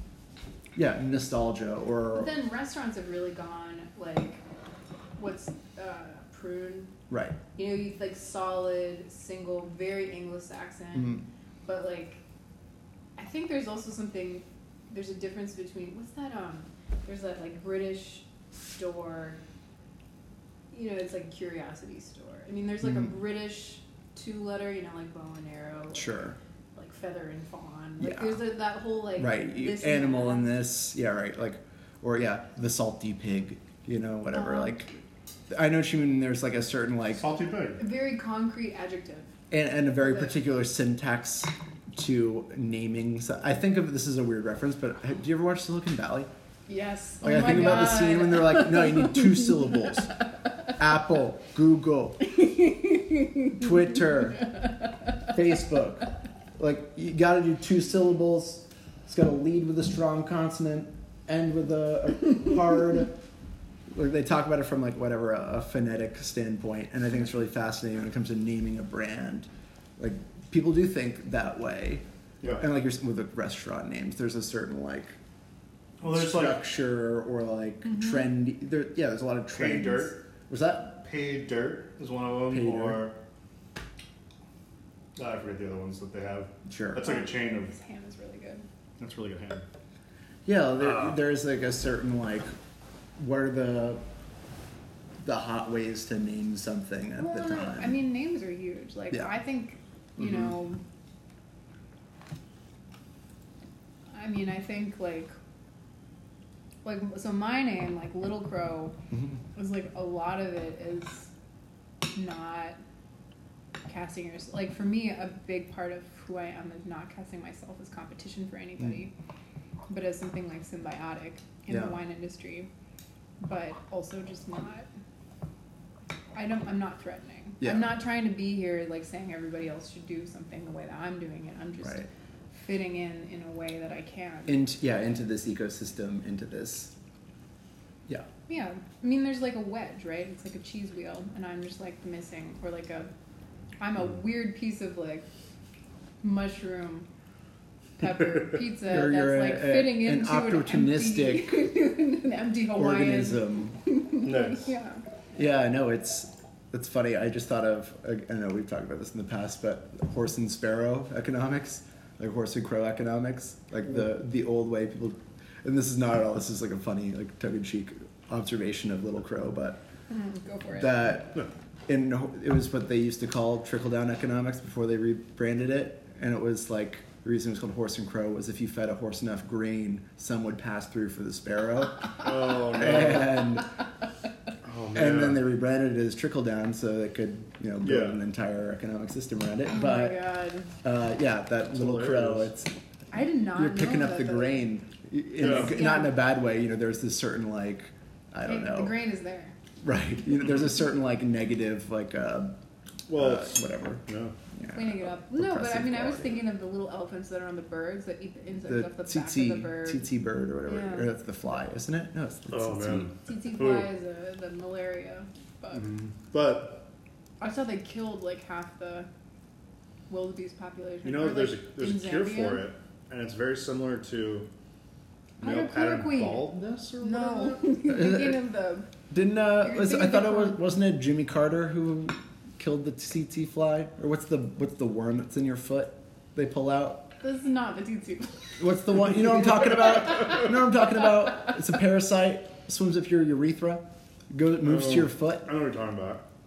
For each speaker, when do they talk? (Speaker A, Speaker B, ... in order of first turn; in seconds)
Speaker A: 0.7-2.3, 7.1-7.4, 25.9-26.4, 28.0-28.4, 29.1-34.9, 35.5-37.2, 39.5-46.3, 47.2-50.2, 50.7-52.3, 53.5-54.5, 55.3-63.2, 63.9-75.1, 76.0-81.0, 82.5-83.0, 86.7-87.0, 90.5-92.5, 93.2-94.0, 95.2-98.0, 121.7-122.0, 127.6-127.9, 134.5-136.9, 148.8-151.6, 152.8-153.8, 155.3-169.8, 170.7-183.7, 184.9-190.2, 190.8-192.7, 193.5-198.9, 199.8-202.6, 203.1-204.0, 204.6-206.4, 208.7-213.1, 227.9-228.4, 229.1-237.1, 238.6-245.5
Speaker B: 2.1-4.4, 5.2-6.9, 7.5-12.2, 13.2-19.4, 20.7-26.2, 26.7-30.5, 34.3-34.8, 37.8-39.3, 46.7-49.3, 52.4-53.4, 77.9-78.2, 87.0-88.7, 97.2-100.8, 104.1-105.3, 106.8-109.0, 109.5-111.3, 112.1-112.8, 113.9-119.1, 119.9-122.7, 123.4-124.9, 126.3-134.7, 138.5-143.1, 143.8-145.2, 146.2-147.1, 148.0-155.0, 170.1-171.0, 189.7-190.7, 193.1-194.6, 195.4-196.2, 198.4-199.6, 204.7-210.1, 210.6-211.1, 213.2-215.9, 217.4-219.1, 220.1-222.7, 225.4-228.9, 229.6-230.6, 237.2-238.6
Speaker C: 37.1-37.8, 76.0-76.6, 79.5-80.2, 81.0-83.2, 85.2-87.7, 89.0-89.6, 90.8-91.1, 154.2-154.7, 182.2-183.5, 184.6-185.4, 187.8-188.2, 191.7-192.5, 195.4-195.8, 203.1-204.3, 212.5-213.9, 215.7-216.8, 221.0-224.5, 225.4-227.7, 244.6-246.2